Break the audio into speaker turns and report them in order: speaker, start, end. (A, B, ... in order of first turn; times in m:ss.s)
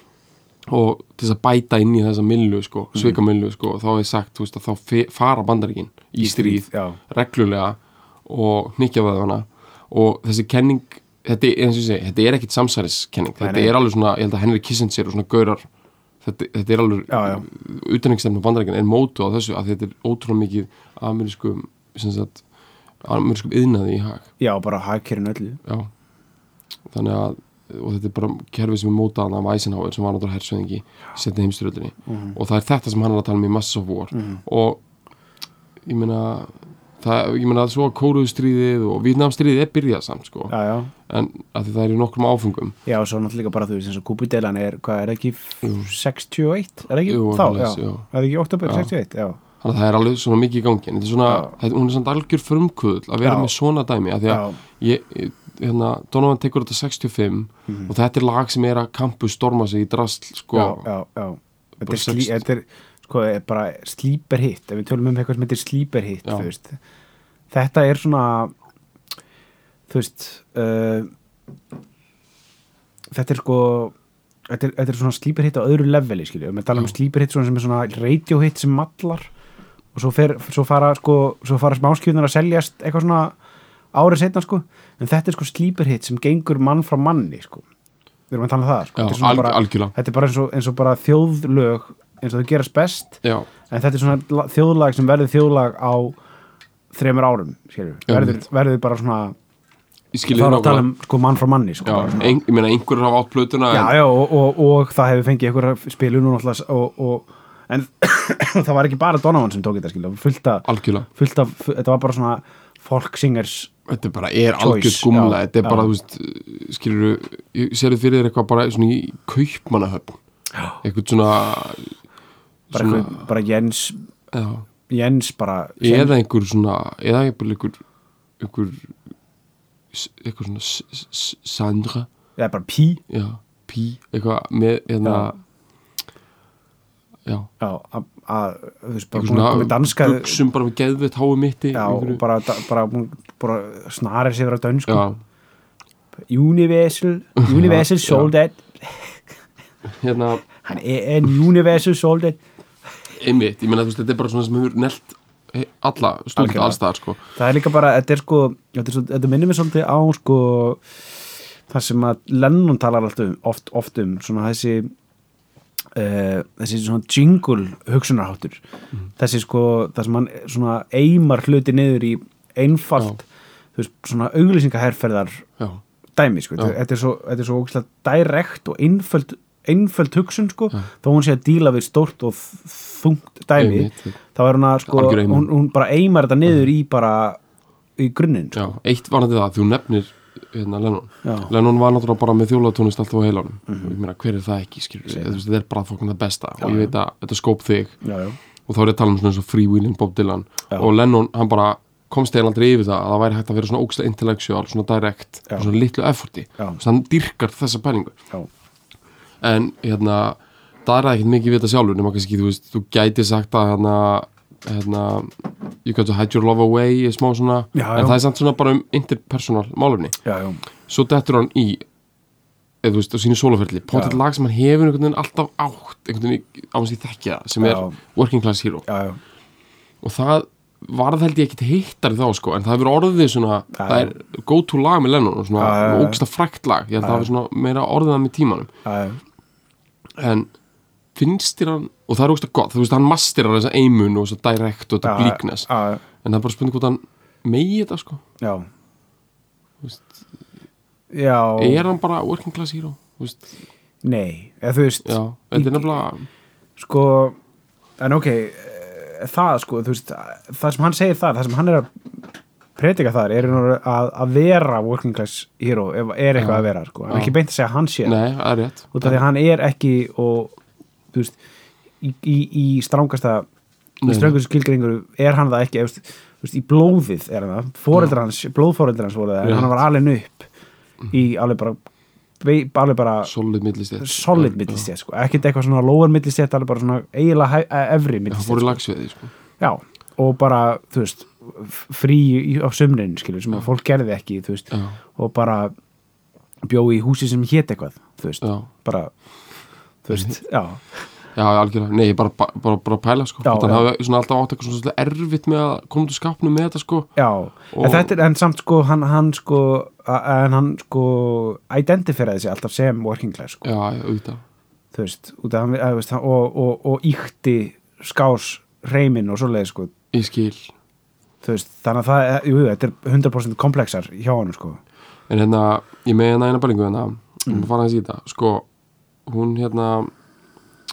0:00.7-0:15.6 A
0:02.9-0:03.2 B
0:06.2-0:07.0 B
0:13.4-0:13.7 B
0:16.2-0:22.4 A
0:17.1-0:17.4 B
0:23.0-0:24.3 A
0:24.4-0:25.6 B
0:25.6-0:25.9 A
0:26.9-0:34.8 A
0:32.1-0:32.4 B
0:34.1-0:34.4 B
0:35.8-0:40.5 A
0:40.5-0:40.9 B
0:41.1-0:42.8 A
0:42.9-0:49.4 B
0:45.6-0:45.9 A
0:47.0-0:48.0 A
0:48.6-0:48.9 A
0:49.6-1:00.9 A
0:51.2-0:51.5 B
0:53.2-0:53.5 B
0:54.3-0:54.6 B
0:57.7-0:57.9 B
1:00.5-1:06.8 B
1:01.8-1:02.4 A
1:06.2-1:06.5 A
1:07.5-1:08.5 B
1:09.9-1:11.1 B
1:13.1-1:13.9 B
1:14.5-1:19.3 B
1:19.9-1:23.4 B
1:23.9-1:27.6 B
1:28.3-1:36.2 B
1:29.0-1:29.9 A
1:33.2-1:33.5 A
1:36.9-1:39.4 B
1:38.1-1:38.4 A
1:40.1-1:40.9 A
1:40.3-1:42.4 B
1:41.8-1:44.0 A
1:43.7-1:53.7 B
1:50.6-1:51.1 A
1:53.9-2:00.2 A
1:54.6-1:55.9 B
2:00.8-2:01.9 A
2:02.7-2:03.2 A
2:02.7-2:04.0 B
2:04.3-2:04.6 A
2:04.9-2:06.1 B
2:05.8-2:07.8 A
2:08.4-2:08.9 A
2:09.9-2:12.1 A
2:12.4-2:13.0 B
2:13.1-2:15.4 A
2:15.0-2:15.3 B
2:17.2-2:17.5 A
2:17.6-2:20.4 B
2:19.1-2:22.2 A
2:21.7-2:25.0 B
2:24.9-2:25.2 A
2:26.3-2:29.2 B
2:27.4-2:28.3 A
2:29.9-2:30.4 A
2:30.6-2:32.4 B
2:33.1-2:37.2 A
2:36.4-2:36.8 B
2:37.4-2:40.8 B
2:41.7-2:44.9 B
2:45.9-2:48.6 B
2:49.2-2:55.5 B
2:56.2-3:07.4 B
3:03.6-3:04.2 A
3:04.9-3:05.5 A
3:08.0-3:08.7 B
3:08.5-3:18.0 A
3:11.2-3:11.5 B
3:13.7-3:14.0 B
3:15.1-3:15.4 B
3:16.6-3:16.9 B
3:18.0-3:18.4 B
3:18.7-3:28.2 A
3:29.4-3:40.2 A
3:37.8-3:38.2 B
3:40.2-3:40.6 B
3:40.9-3:41.8 A
3:42.8-3:48.8 A
3:43.9-3:44.2 B
3:47.6-3:48.0 B
3:48.9-3:49.2 B
3:50.0-3:58.7 A
3:53.7-3:54.1 B
3:55.6-3:56.2 B
3:57.0-3:57.3 B
3:58.8-3:59.2 B
4:00.1-4:00.5 A
4:01.1-4:05.7 A
4:05.0-4:06.0 B
4:06.2-4:08.2 A
4:08.4-4:08.7 B
4:09.8-4:10.2 A
4:11.1-4:11.9 B
4:11.6-4:13.6 A
4:14.0-4:16.0 B
4:15.0-4:16.3 A
4:16.8-4:17.4 B
4:18.0-4:22.2 B
4:22.8-4:28.2 B
4:26.4-4:27.4 A
4:28.0-4:29.2 A
4:28.9-4:30.6 B
4:31.1-4:31.4 B
4:32.0-4:33.5 B
4:34.0-4:34.4 A
4:34.0-4:40.5 B
4:39.4-4:39.8 A
4:41.1-4:41.8 B
4:42.4-4:43.3 B
4:43.2-4:44.9 A
4:44.0-4:48.8 B
4:48.3-4:49.3 A
4:49.6-4:55.7 B
4:54.7-4:55.0 A
4:56.6-4:59.1 B
4:58.4-4:58.7 A
5:00.0-5:00.8 B
5:01.4-5:07.1 A
5:03.4-5:03.9 B
5:07.2-5:13.7 B
5:07.7-5:08.1 A
5:13.6-5:14.4 A
5:14.9-5:19.9 B
5:20.1-5:20.7 A
5:21.4-5:24.8 B
5:25.3-5:28.6 A
5:29.2-5:30.1 A